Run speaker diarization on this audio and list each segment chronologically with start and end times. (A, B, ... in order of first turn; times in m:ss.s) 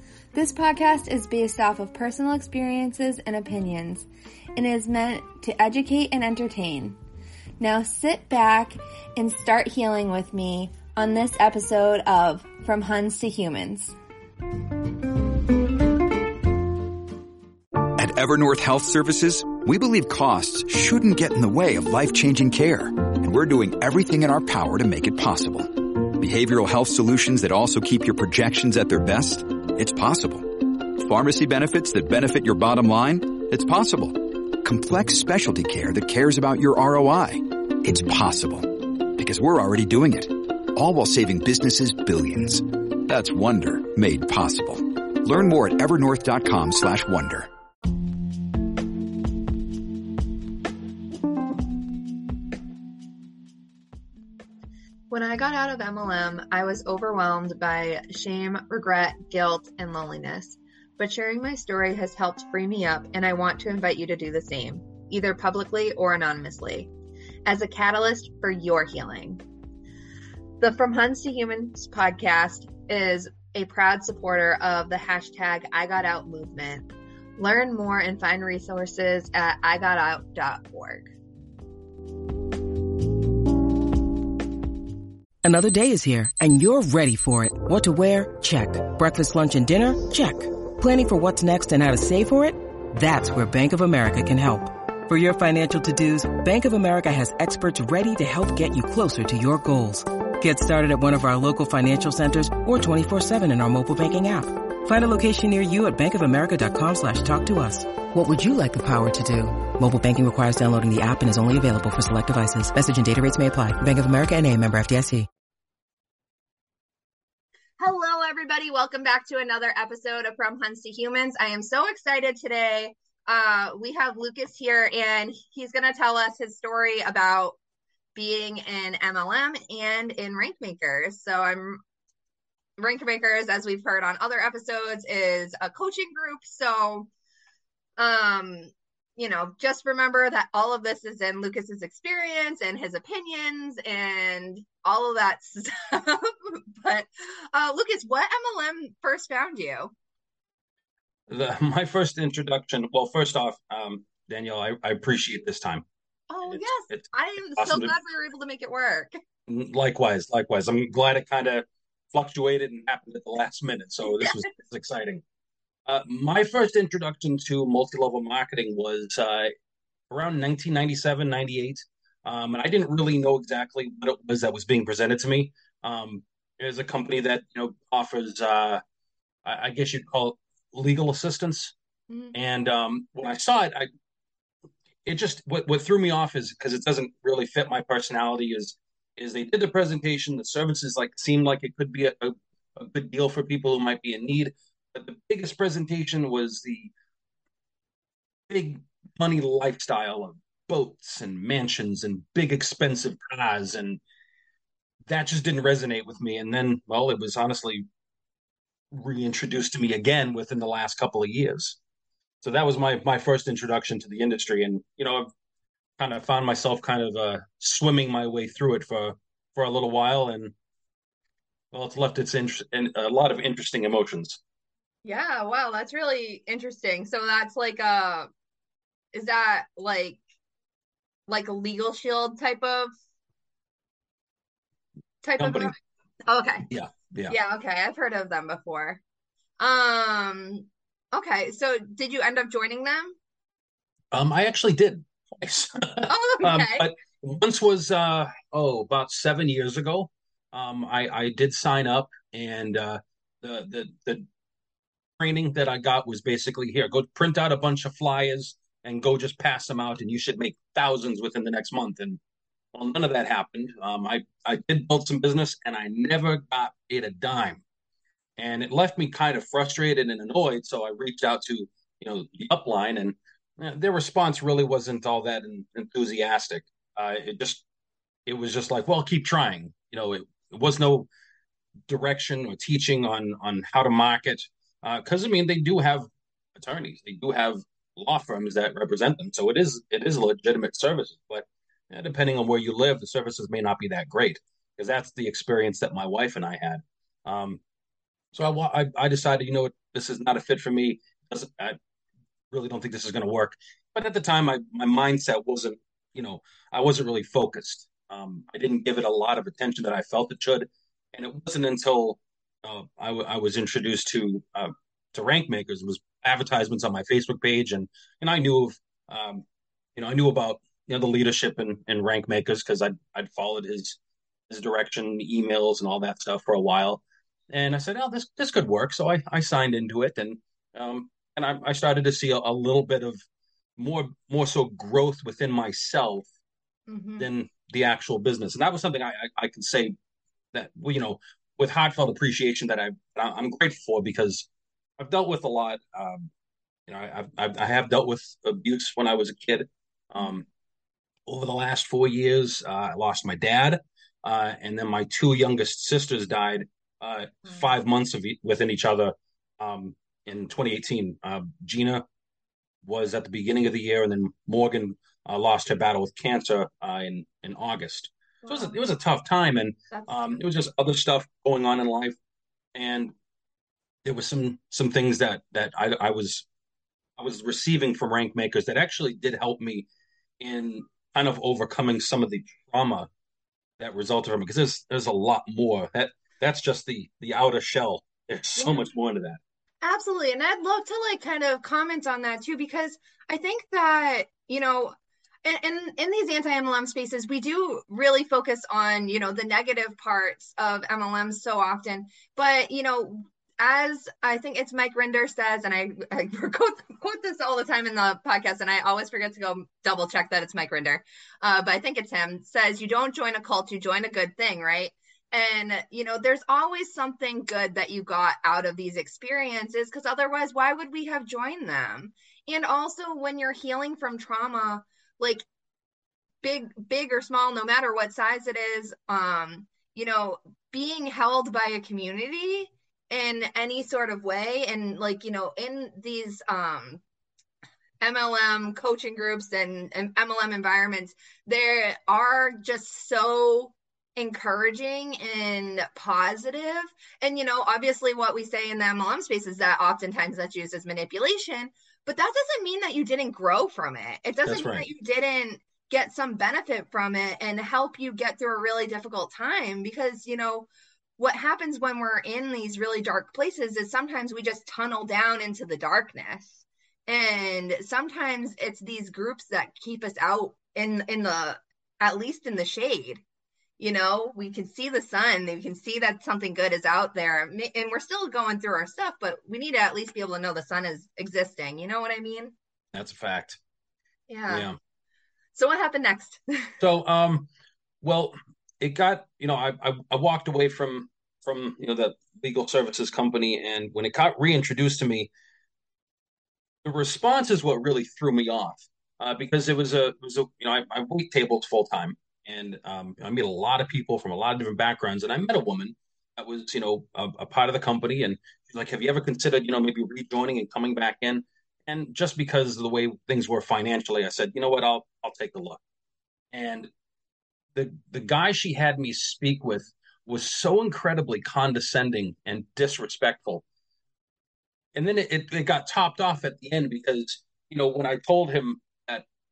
0:00.3-0:07.0 A
0:07.6-0:14.0 A
0:17.9-0:47.5 B
0:55.1-1:06.9 A
1:07.4-1:09.4 A
1:10.6-1:21.1 A
1:25.4-1:55.3 C
1:57.8-2:07.6 A
2:08.2-2:11.8 A
2:12.8-2:17.1 A
2:18.0-2:29.9 A
2:31.3-2:35.8 D
2:36.3-2:39.2 A
2:36.5-2:37.9 D
2:39.5-2:45.2 D
2:44.1-2:44.4 A
2:45.9-2:49.5 D
2:50.1-2:58.8 D
2:59.4-3:01.7 D
3:02.1-3:02.3 A
3:02.3-3:03.9 D
3:05.0-3:16.9 D
3:18.5-3:24.0 D
3:25.1-3:27.8 D
3:28.9-3:31.8 D
3:32.4-3:35.3 D
3:36.0-3:40.5 D
3:41.7-3:44.4 D
3:45.0-3:48.3 A
3:49.1-3:50.2 A
3:51.3-3:52.9 A
3:55.2-3:55.8 A
3:55.4-3:55.7 D
3:56.3-3:56.7 A
3:56.7-3:57.4 D
3:57.3-3:59.0 A
3:59.6-4:03.1 A
4:04.1-4:14.2 D
4:06.1-4:06.9 A
4:15.2-4:22.2 D
4:22.7-4:27.6 D
4:28.4-4:37.6 D
4:38.2-4:41.1 D
4:41.9-4:57.6 D
4:58.3-5:01.8 D
5:02.5-5:19.4 D
5:20.0-5:24.0 D
5:24.5-5:33.2 D
5:33.8-5:36.2 D
5:36.9-5:37.2 A
5:37.2-5:39.9 D
5:40.5-5:44.4 D
5:45.0-5:46.3 D
5:46.9-5:50.4 D
5:51.2-6:02.0 D
6:02.8-6:12.1 D
6:08.4-6:08.8 A
6:09.9-6:10.4 A
6:12.8-6:13.1 D
6:14.0-6:16.4 D
6:17.2-6:19.9 D
6:20.4-6:23.1 D
6:23.8-6:29.4 D
6:28.6-6:28.8 A
6:29.8-7:05.4 A
7:06.4-7:17.0 A
7:18.0-7:53.2 A
7:34.4-7:34.9 D
7:53.8-8:02.5 A
8:02.9-8:03.6 D
8:04.3-8:04.7 A
8:04.5-8:04.8 D
8:05.6-8:06.7 A
8:06.8-8:07.5 D
8:08.0-8:15.3 D
8:16.8-8:35.8 D
8:36.5-8:36.9 D
8:37.8-8:43.6 D
8:45.0-8:49.2 D